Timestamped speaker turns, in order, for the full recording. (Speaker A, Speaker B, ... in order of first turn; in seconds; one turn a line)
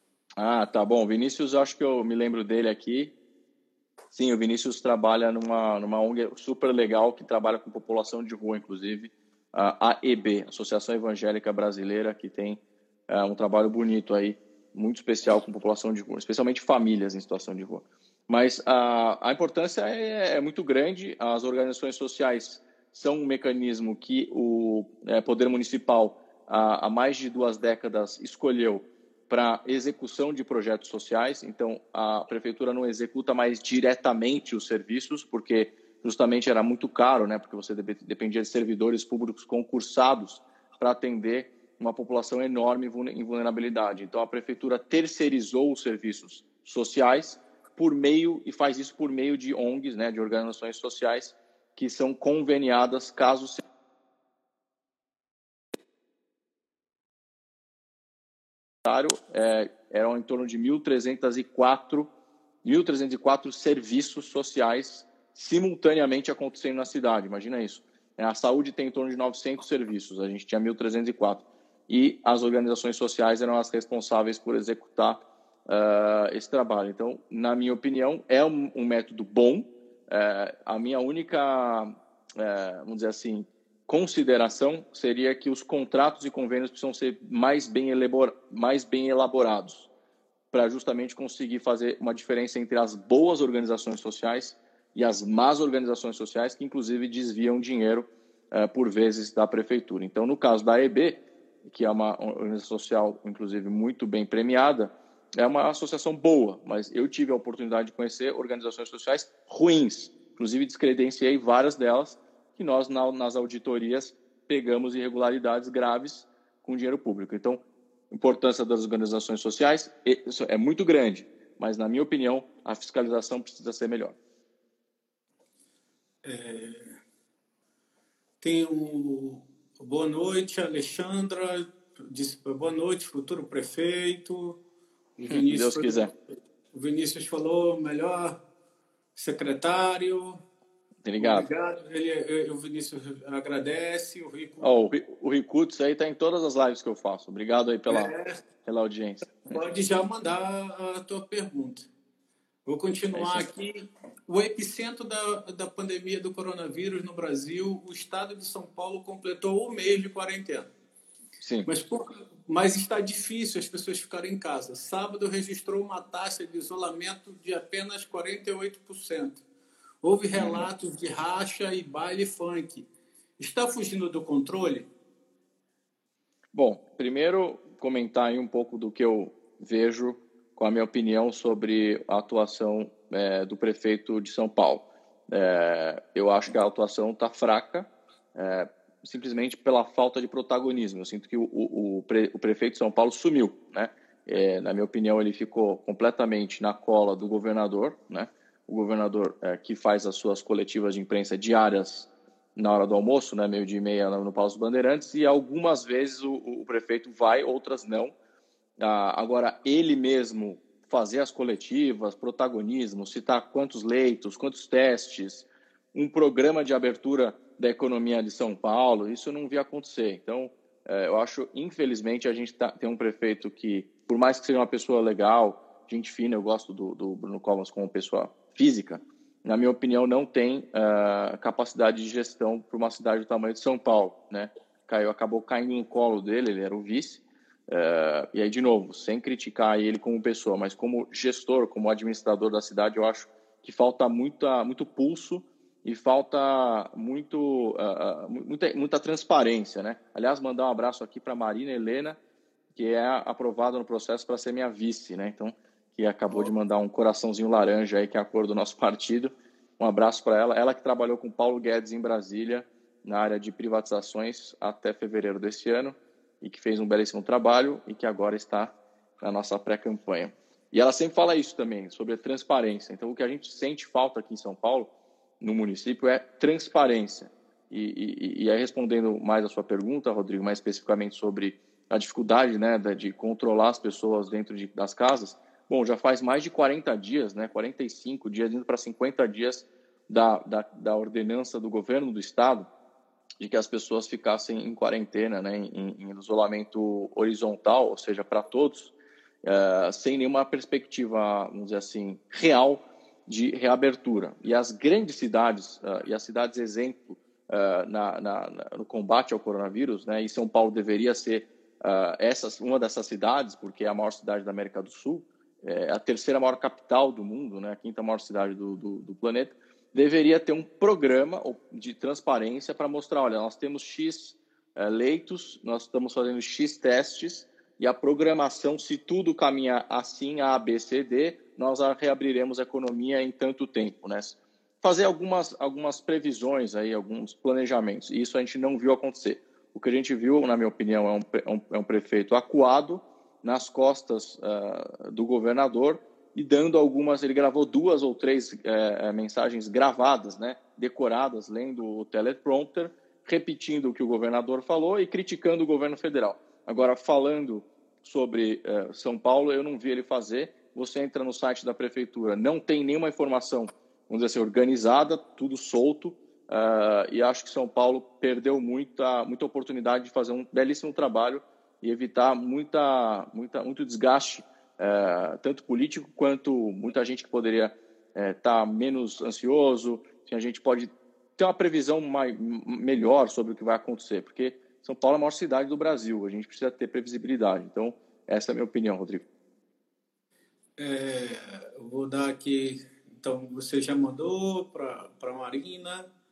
Speaker A: 0.4-3.1
Speaker A: 4.1-53.6
Speaker A: 58.8-62.1
Speaker A: 62.6-89.9
Speaker A: 90.5-124.2
Speaker B: 126.2-127.0
Speaker B: 128.4-134.6
Speaker B: 135.2-136.1
Speaker A: 135.3-136.1
Speaker B: 136.7-138.4
Speaker B: 139.2-140.4
Speaker A: 141.0-141.5
Speaker B: 141.2-144.7
Speaker A: 144.6-148.1
Speaker B: 147.9-148.4
Speaker A: 148.6-149.6
Speaker B: 149.4-151.9
Speaker B: 152.7-160.7
Speaker A: 153.1-153.5
Speaker A: 161.4-161.7
Speaker B: 161.7-169.4
Speaker B: 170.0-174.9
Speaker A: 170.3-170.7
Speaker A: 176.5-208.1
Speaker A: 208.8-252.2
Speaker A: 252.7-274.9
Speaker B: 256.3-256.5
Speaker A: 275.4-292.7
Speaker A: 293.4-389.2
Speaker B: 390.8-396.1